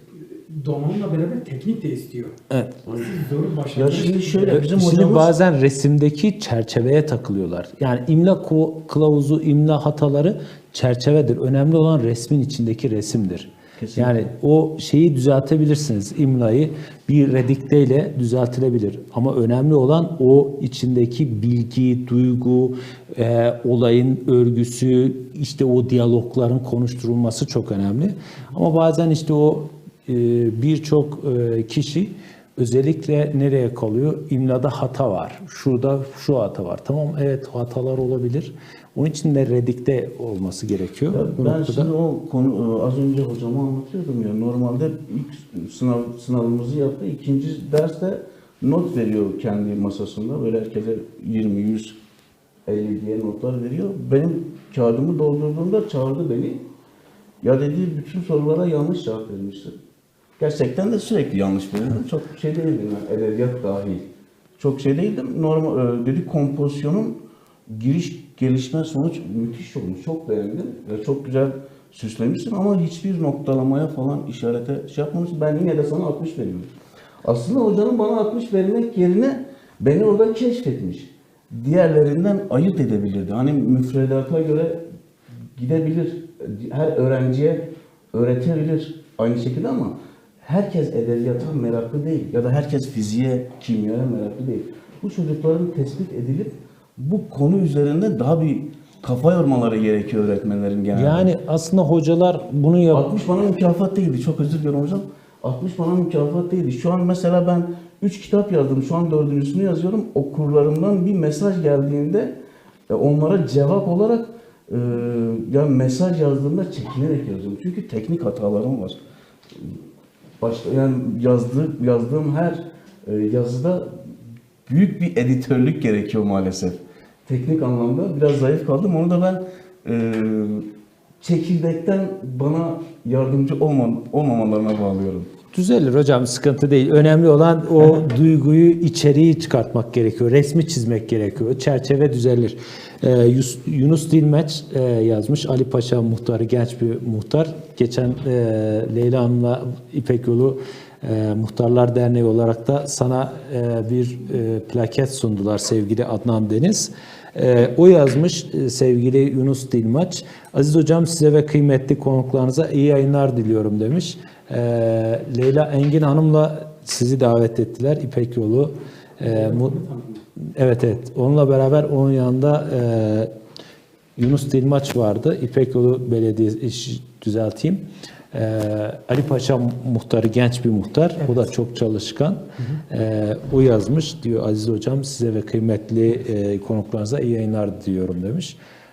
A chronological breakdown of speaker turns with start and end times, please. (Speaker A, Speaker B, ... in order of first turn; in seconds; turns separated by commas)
Speaker A: 0.3-2.3, Speaker B: 2.5-2.8, Speaker C: 2.9-3.1, Speaker A: 2.9-4.7, Speaker C: 3.7-5.3, Speaker B: 4.5-41.9, Speaker C: 13.8-14.3, Speaker C: 41.1-52.0, Speaker C: 52.6-56.6, Speaker C: 57.4-59.7, Speaker C: 60.4-67.2, Speaker C: 67.7-84.8, Speaker C: 85.5-101.3, Speaker B: 100.9-103.1, Speaker C: 102.9-112.3, Speaker C: 112.9-119.0, Speaker C: 120.4-123.9, Speaker C: 124.7-130.7, Speaker C: 131.2-135.3, Speaker B: 135.5-169.8, Speaker A: 169.2-170.2, Speaker B: 170.4-173.3, Speaker B: 174.2-188.6, Speaker A: 181.2-181.5